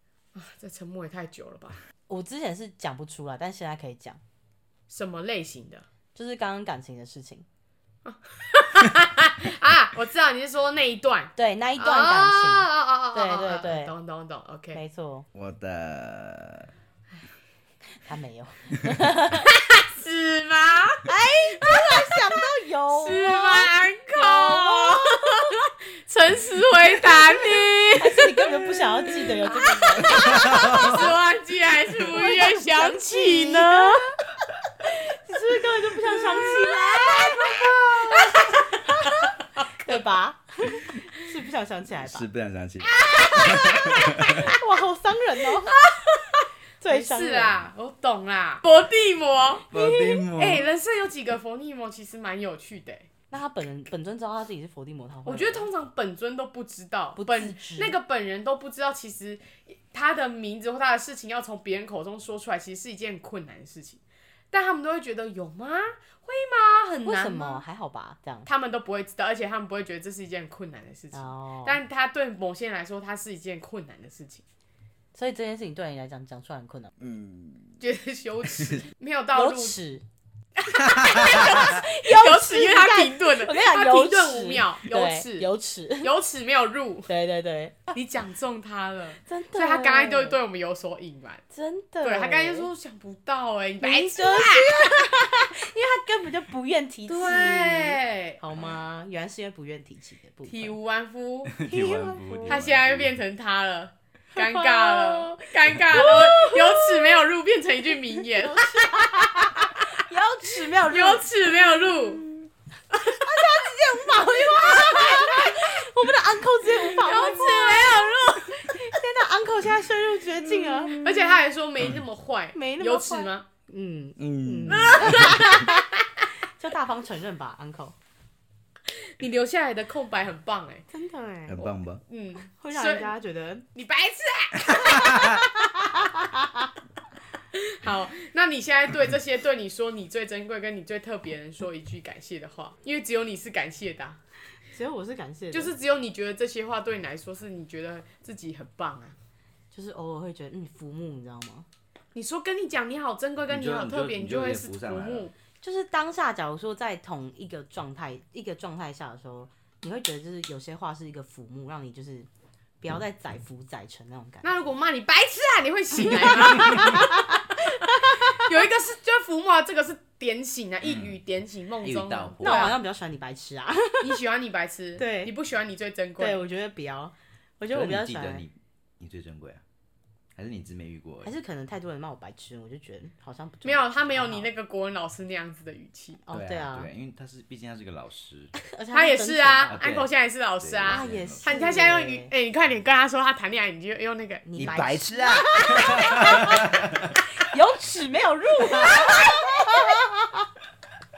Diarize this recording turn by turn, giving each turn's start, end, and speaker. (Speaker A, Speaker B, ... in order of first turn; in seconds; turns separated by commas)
Speaker A: 0.3-1.8, Speaker B: 2.1-4.2, Speaker A: 4.9-5.9, Speaker B: 6.2-7.5, Speaker A: 8.1-14.8, Speaker B: 11.4-13.9, Speaker B: 14.7-15.3, Speaker C: 15.3-16.7, Speaker B: 18.1-19.5, Speaker A: 19.5-21.1, Speaker B: 21.1-25.4, Speaker A: 21.6-22.2, Speaker A: 22.9-34.1, Speaker B: 28.0-31.0, Speaker C: 30.1-31.1, Speaker B: 32.1-34.1, Speaker B: 34.9-39.3, Speaker A: 36.1-40.0, Speaker B: 39.8-42.2, Speaker C: 42.0-44.5, Speaker A: 42.9-44.5, Speaker B: 44.4-45.8, Speaker A: 45.7-53.1, Speaker B: 46.8-47.5, Speaker C: 49.7-50.7, Speaker B: 53.3-55.7, Speaker A: 55.3-64.0, Speaker B: 57.2-58.0, Speaker A: 64.5-67.6, Speaker B: 67.0-68.5, Speaker A: 68.5-74.4, Speaker B: 71.1-71.8, Speaker B: 75.1-76.9, Speaker C: 77.0-77.8, Speaker A: 77.8-79.8, Speaker B: 79.3-80.0, Speaker A: 80.6-85.5, Speaker C: 80.8-81.7, Speaker B: 81.2-86.1, Speaker A: 86.0-87.1, Speaker B: 87.1-88.0, Speaker A: 87.9-91.4, Speaker B: 89.3-90.4, Speaker B: 91.5-92.7, Speaker A: 92.0-95.5, Speaker B: 93.8-100.8, Speaker A: 97.1-98.4, Speaker A: 100.5-101.6, Speaker C: 101.5-103.1, Speaker B: 101.7-102.5, Speaker A: 102.5-109.7, Speaker B: 104.3-107.2, Speaker B: 108.2-111.9, Speaker A: 110.9-112.2, Speaker B: 112.9-121.0, Speaker A: 114.2-115.6, Speaker A: 116.8-118.2, Speaker A: 120.9-123.5, Speaker B: 122.5-125.9, Speaker C: 124.2-125.5, Speaker A: 124.7-126.0, Speaker B: 126.6-128.0, Speaker A: 129.2-130.9, Speaker B: 130.9-131.6, Speaker C: 131.5-132.0, Speaker A: 131.6-133.1, Speaker B: 132.4-133.7, Speaker A: 133.8-135.3, Speaker C: 134.7-135.4, Speaker B: 134.8-136.7, Speaker A: 137.6-144.2, Speaker B: 144.7-145.7, Speaker A: 145.5-149.2, Speaker B: 149.7-151.7, Speaker A: 152.2-155.3, Speaker C: 153.5-155.3, Speaker B: 155.6-162.3, Speaker B: 162.8-164.5, Speaker A: 164.4-167.1, Speaker B: 166.1-168.5, Speaker A: 167.9-172.8, Speaker C: 170.8-171.2, Speaker C: 171.8-172.7, Speaker B: 172.4-174.1, Speaker A: 174.0-176.4, Speaker B: 175.0-175.3, Speaker B: 176.2-178.4, Speaker C: 177.7-179.6, Speaker C: 180.4-181.3, Speaker B: 181.2-184.5, Speaker A: 183.6-186.2, Speaker B: 186.2-186.9, Speaker C: 186.3-188.6, Speaker B: 188.6-189.8, Speaker A: 188.9-194.8, Speaker C: 189.7-191.4, Speaker B: 190.9-192.3, Speaker B: 194.4-196.6, Speaker C: 194.6-197.2, Speaker B: 197.4-200.4